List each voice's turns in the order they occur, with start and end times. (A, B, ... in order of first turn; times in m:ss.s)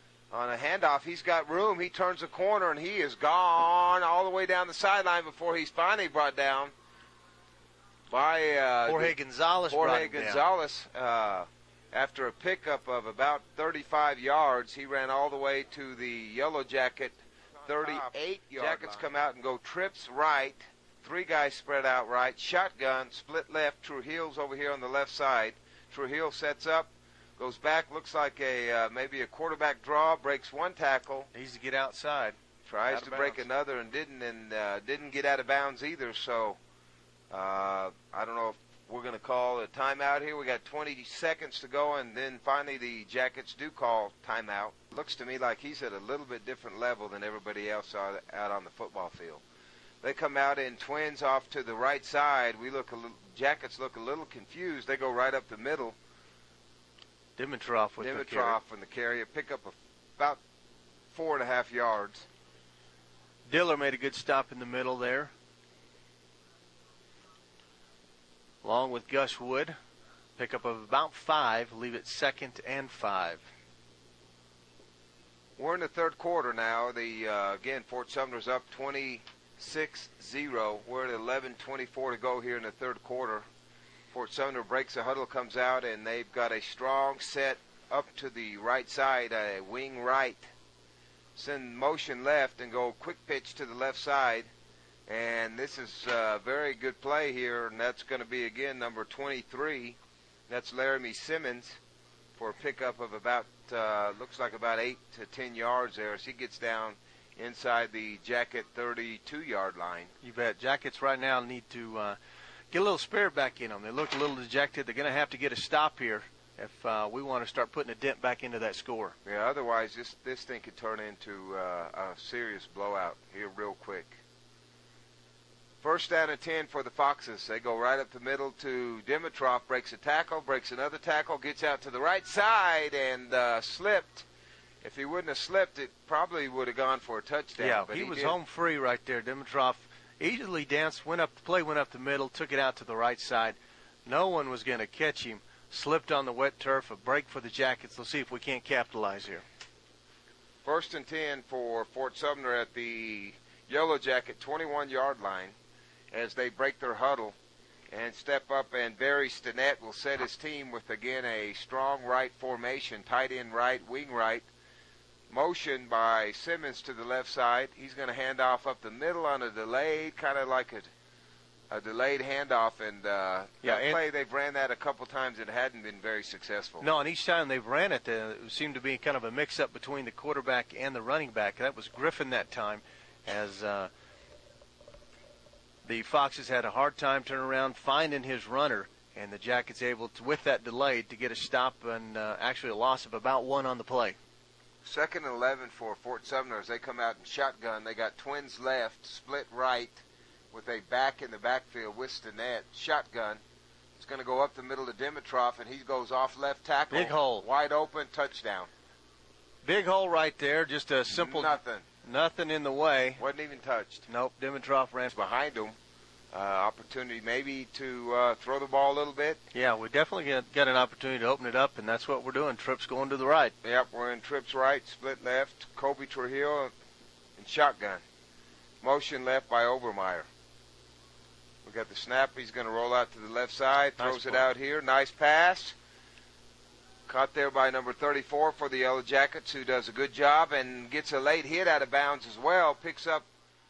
0:00.3-0:06.7 A
0:08.1-0:09.2 A
0:08.8-0:10.4 B
0:09.7-0:31.3 A
0:18.6-0:19.0 B
0:31.3-0:33.4 B
0:32.6-0:36.6 A
0:37.3-0:49.4 A
0:50.0-0:56.0 A
0:57.4-0:58.6 B
0:58.0-1:00.4 A
1:01.1-1:02.2 A
1:03.5-1:05.3 B
1:08.6-1:09.7 B
1:10.4-1:13.4 B
1:15.6-1:23.4 A
1:24.1-1:30.5 A
1:31.4-1:34.5 A
1:35.1-1:40.0 A
1:40.5-1:41.8 A
1:42.4-1:50.1 A
1:50.2-1:52.2 B
1:52.7-1:59.1 B
1:59.2-2:04.2 A
2:05.8-2:14.2 A
2:14.8-2:18.4 A
2:17.6-2:29.4 B
2:30.6-2:35.6 A
2:36.1-2:37.4 A
2:37.9-2:44.4 A
2:45.3-2:50.9 A
2:51.7-2:56.9 A
2:53.6-2:54.0 B
2:56.8-3:03.9 B
3:05.8-3:14.2 B
3:14.8-3:23.4 A
3:24.0-3:28.7 A
3:26.9-3:27.4 B
3:29.6-3:33.2 B
3:31.1-3:31.8 A
3:33.2-3:34.1 A
3:34.1-3:35.1 B
3:35.1-3:35.7 A
3:36.3-3:39.4 A
3:39.5-3:43.5 B
3:43.6-3:46.7 A
3:47.4-3:48.0 A
3:48.8-3:50.3 A
3:51.6-3:55.7 A
3:54.0-3:54.5 B
3:57.1-4:03.2 A